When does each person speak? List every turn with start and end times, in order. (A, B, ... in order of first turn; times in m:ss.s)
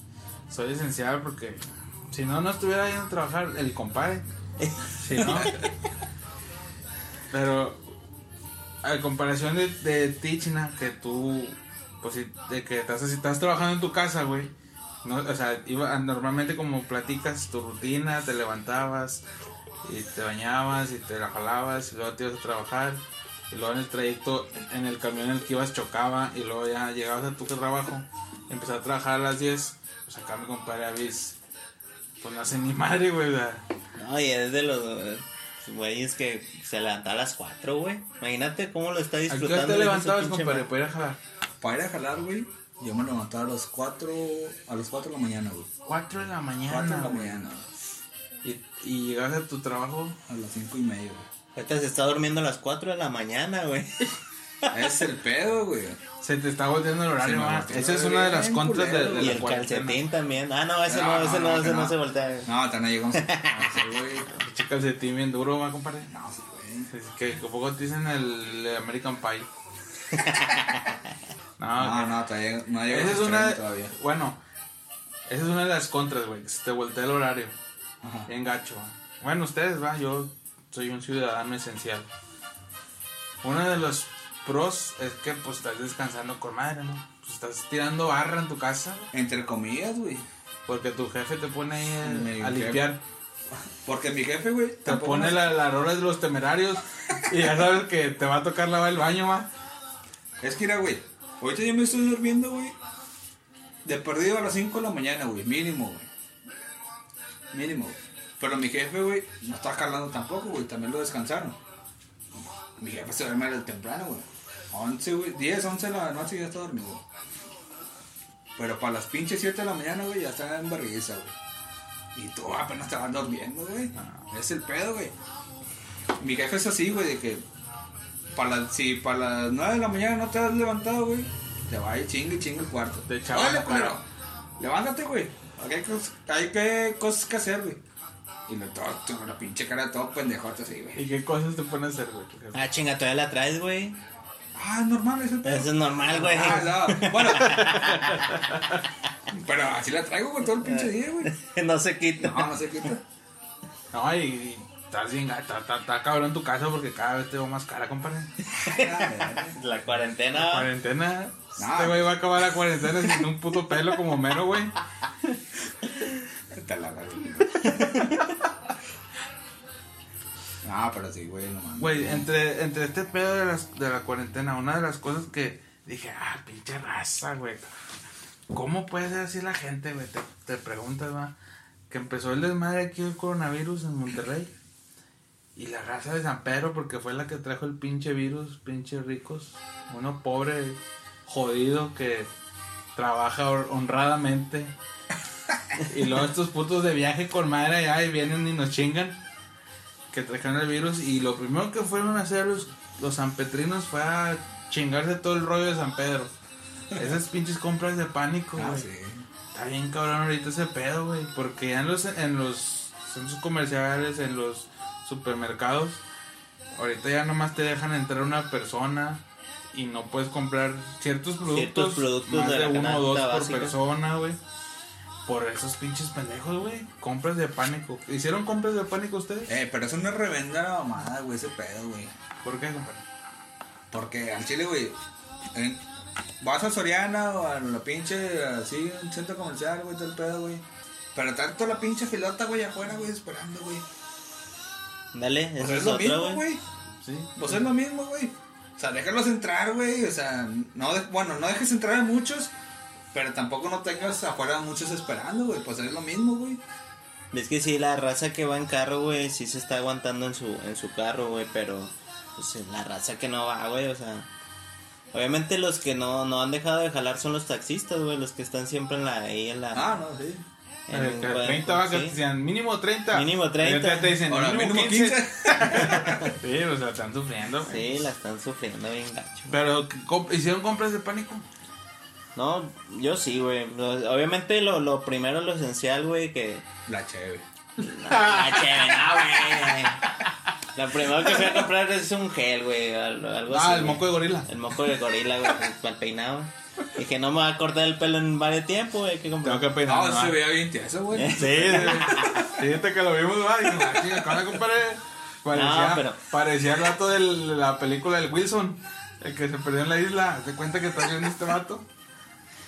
0:00.5-0:04.2 A
0:04.6-0:05.6 B
0:05.0-0:05.6 A
0:07.3-0:07.8 A
0:08.8-0:14.5 A
0:15.0-0:19.2 A
0:19.8-0:23.0 A
0:23.5-0:31.4 A
0:32.2-0:33.6 A
0:34.0-0:40.7 B
0:39.3-0:41.2 A
0:41.6-0:45.7 C
0:45.9-0:47.4 A
0:46.7-0:47.7 C
0:48.4-0:50.2 A
0:50.3-0:51.3 C
0:51.6-0:54.1 B
0:54.7-0:56.0 C
0:56.2-1:00.0 A
0:57.2-0:59.5 C
0:59.2-1:02.5 B
1:00.9-1:02.0 C
1:02.5-1:04.3 C
1:03.1-1:03.7 B
1:04.4-1:06.1 A
1:06.1-1:06.9 C
1:06.9-1:09.5 A
1:10.2-1:11.0 B
1:11.6-1:12.2 A
1:11.8-1:13.9 C
1:12.9-1:14.4 A
1:15.3-1:17.6 A
1:18.0-1:18.3 C
1:18.3-1:22.1 A
1:23.4-1:29.1 A
1:29.1-1:30.2 C
1:30.7-1:33.0 A
1:32.0-1:32.8 C
1:33.8-1:35.4 C
1:34.8-1:39.5 A
1:40.4-1:42.8 C
1:43.8-1:46.1 C
1:47.5-1:51.6 C
1:52.8-1:57.0 C
1:58.6-2:01.4 C
2:02.1-2:05.1 C
2:04.0-2:04.3 A
2:06.2-2:07.4 C
2:08.4-2:14.0 C
2:13.0-2:14.0 A
2:14.6-2:17.8 C
2:18.5-2:21.0 C
2:21.0-2:22.6 A
2:22.5-2:24.0 B
2:24.6-2:27.9 C
2:25.4-2:28.5 B
2:26.2-2:26.6 A
2:27.3-2:28.8 A
2:29.3-2:31.3 C
2:30.6-2:32.5 B
2:32.2-2:33.0 C
2:33.9-2:38.3 A
2:38.5-2:40.7 B
2:38.6-2:39.6 C
2:40.3-2:44.8 A
2:41.6-2:42.1 C
2:46.5-2:48.3 C
2:47.6-2:48.3 B
2:50.6-2:52.3 C
2:51.8-2:57.7 A
2:58.5-3:01.3 A
3:01.9-3:04.5 A
3:05.6-3:12.3 A
3:13.0-3:14.7 A
3:15.8-3:19.2 A
3:20.1-3:26.3 A
3:27.0-3:28.9 A
3:28.6-3:29.2 C
3:29.5-3:36.0 A
3:36.8-3:44.4 A
3:41.5-3:43.8 B
3:45.2-3:49.5 A
3:49.5-3:52.1 C
3:52.4-3:53.0 A
3:53.9-3:55.0 C
3:55.5-3:55.8 C
3:56.4-4:03.8 C
4:05.1-4:06.4 B
4:05.6-4:06.6 C
4:07.0-4:07.3 A
4:07.4-4:12.5 C
4:13.1-4:16.6 C
4:17.3-4:24.3 B
4:25.1-4:29.9 B
4:29.7-4:30.4 C
4:30.9-4:32.2 B
4:30.9-4:38.1 A
4:33.1-4:34.2 B
4:34.3-4:36.3 C
4:37.7-4:39.6 B
4:39.5-4:41.5 A
4:42.4-4:46.7 B
4:46.9-4:47.4 C
4:47.8-4:49.7 A
4:47.8-4:50.0 B
4:50.7-4:59.7 B
4:51.2-4:51.6 C
4:53.5-4:54.5 A
4:59.4-5:00.4 A
4:59.9-5:02.6 C
5:01.2-5:02.5 B
5:01.3-5:11.9 A
5:03.8-5:04.2 C
5:05.5-5:06.2 B